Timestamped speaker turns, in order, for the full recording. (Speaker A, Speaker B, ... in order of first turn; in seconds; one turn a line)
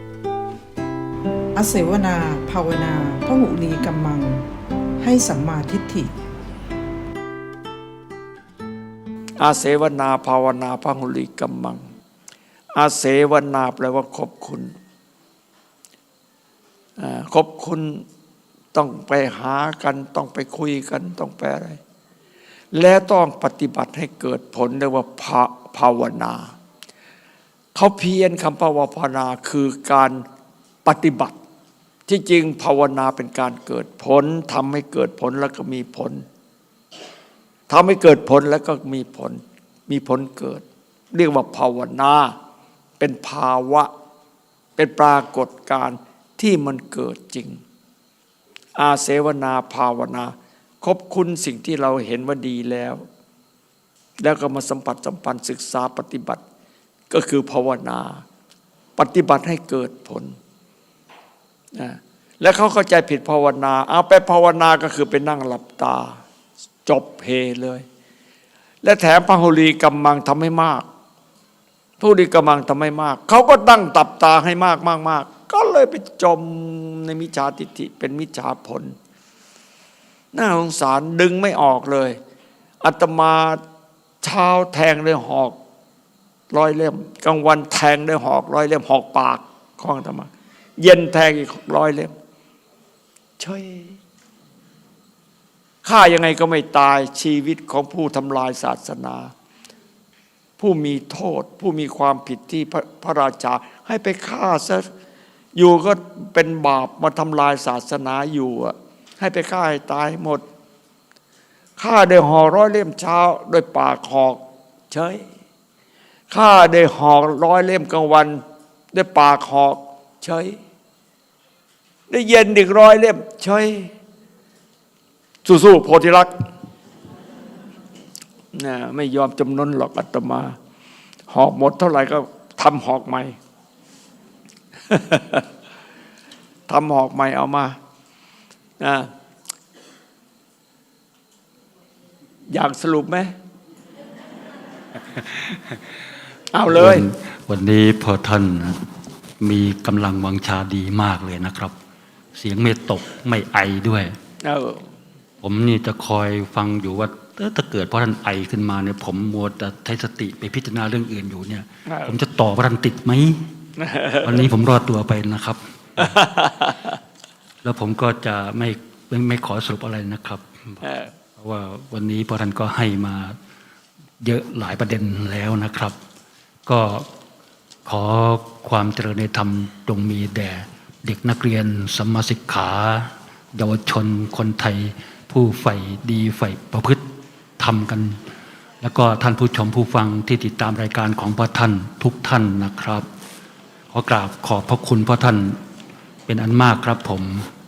Speaker A: 1.6-4.5
Speaker A: 5.0-6.1
Speaker B: 9.4-11.8
Speaker B: 12.8-14.7
Speaker B: 17.0-18.1
Speaker B: 18.7-21.8
Speaker B: 22.7-26.5
Speaker B: 27.8-30.2
Speaker B: 30.9-31.4
Speaker B: 32.1-36.2
Speaker B: 37.7-42.4
Speaker B: 43.0-43.9
Speaker B: 44.8-47.6
Speaker B: 48.8-53.0
Speaker B: 54.2-56.4
Speaker B: 57.1-58.2
Speaker B: 59.0-60.4
Speaker B: 61.8-66.2
Speaker B: 66.9-67.8
Speaker B: 68.8-70.9
Speaker B: 72.0-79.0
Speaker B: 80.3-82.2
Speaker B: 82.8-83.6
Speaker B: 84.2-85.6
Speaker B: 86.5-92.2
Speaker B: 93.4-94.0
Speaker B: 95.8-99.3
Speaker B: 100.6-104.9
Speaker B: 105.5-110.4
Speaker B: 111.8-115.3
Speaker B: 116.3-120.6
Speaker B: 122.1-123.9
Speaker B: 125.5-126.3
Speaker B: 128.5-130.6
Speaker B: 131.3-133.4
Speaker B: 134.9-135.4
Speaker B: 136.7-137.8
Speaker B: 138.8-139.1
Speaker B: 142.5-143.3
Speaker C: 145.1-145.8
Speaker B: 146.5-147.1
Speaker C: 146.7-148.8
Speaker C: 149.4-151.8
Speaker C: 152.4-154.1
Speaker B: 154.4-154.9
Speaker C: 155.4-163.4
Speaker B: 161.9-162.2
Speaker B: 163.8-164.5
Speaker C: 164.2-166.2
Speaker B: 166.0-167.0
Speaker C: 167.6-170.8
Speaker B: 170.8-171.1
Speaker C: 171.4-173.3
Speaker C: 174.2-176.0
Speaker C: 176.7-177.1
Speaker C: 177.9-187.0
Speaker C: 187.6-188.2
Speaker C: 188.8-193.1
Speaker C: 193.9-195.6
Speaker C: 196.3-197.5